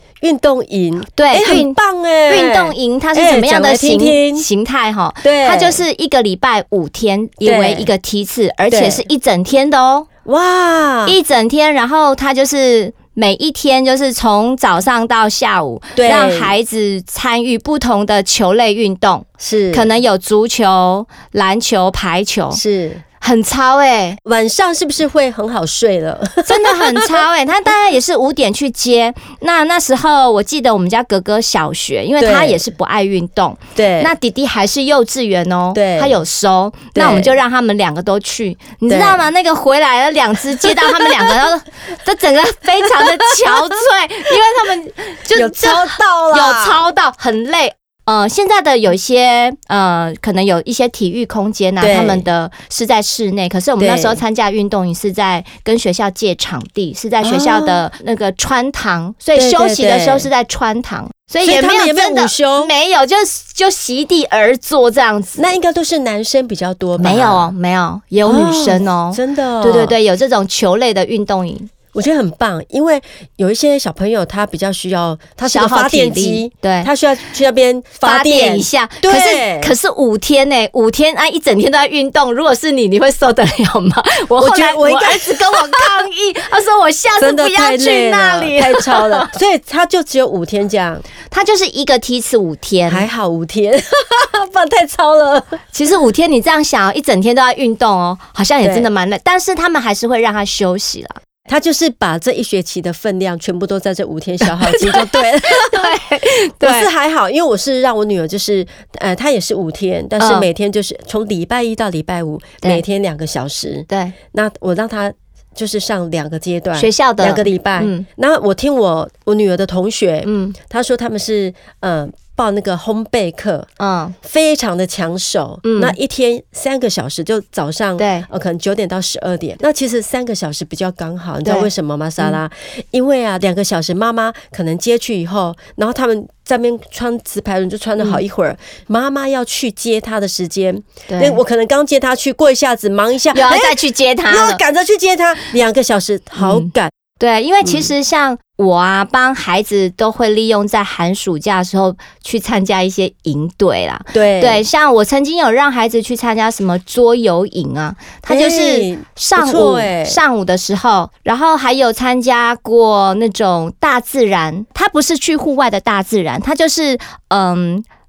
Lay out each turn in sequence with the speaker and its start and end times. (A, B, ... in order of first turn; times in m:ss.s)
0:00.2-0:04.5 A
0:01.2-0:01.8 B
0:02.3-0:10.1 B
0:05.2-0:05.8 A
0:07.4-0:07.9 A
0:08.7-0:09.0 A
0:10.2-0:11.2 A
0:11.1-0:22.6 B
0:16.0-0:16.5 A
0:19.4-0:19.9 A
0:22.5-0:23.0 A
0:23.2-0:24.2 B
0:24.2-0:27.2 A
0:26.4-1:05.4 B
0:32.2-0:32.6 A
0:33.8-0:34.1 A
0:35.7-0:36.2 A
0:36.9-0:37.3 A
0:38.9-0:39.2 A
0:40.8-0:41.1 A
0:45.3-0:46.8 A
0:51.8-0:52.2 A
0:53.8-0:54.2 A
0:57.2-0:57.8 A
0:59.3-1:00.3 A
1:01.4-1:02.7 A
1:05.4-1:07.5 A
1:07.0-1:11.7 B
1:08.2-1:10.0 A
1:11.9-1:19.7 A
1:15.4-1:16.9 B
1:18.0-1:29.3 B
1:24.4-1:25.9 A
1:27.2-1:31.0 A
1:31.3-1:33.1 B
1:32.9-1:35.6 A
1:35.7-1:41.2 B
1:38.6-1:38.9 A
1:41.5-1:45.9 A
1:44.4-1:46.9 B
1:46.6-2:03.7 A
1:50.2-1:50.5 B
1:53.9-1:54.1 B
1:56.8-1:58.1 B
2:00.2-2:00.6 B
2:03.8-2:04.1 B
2:04.2-2:26.9 A
2:05.6-2:05.9 B
2:08.0-2:08.2 B
2:11.4-2:12.4 B
2:21.1-2:21.4 B
2:23.3-2:24.6 B
2:26.4-2:47.8 B
2:27.6-2:27.9 A
2:34.1-2:34.6 A
2:38.3-2:40.2 A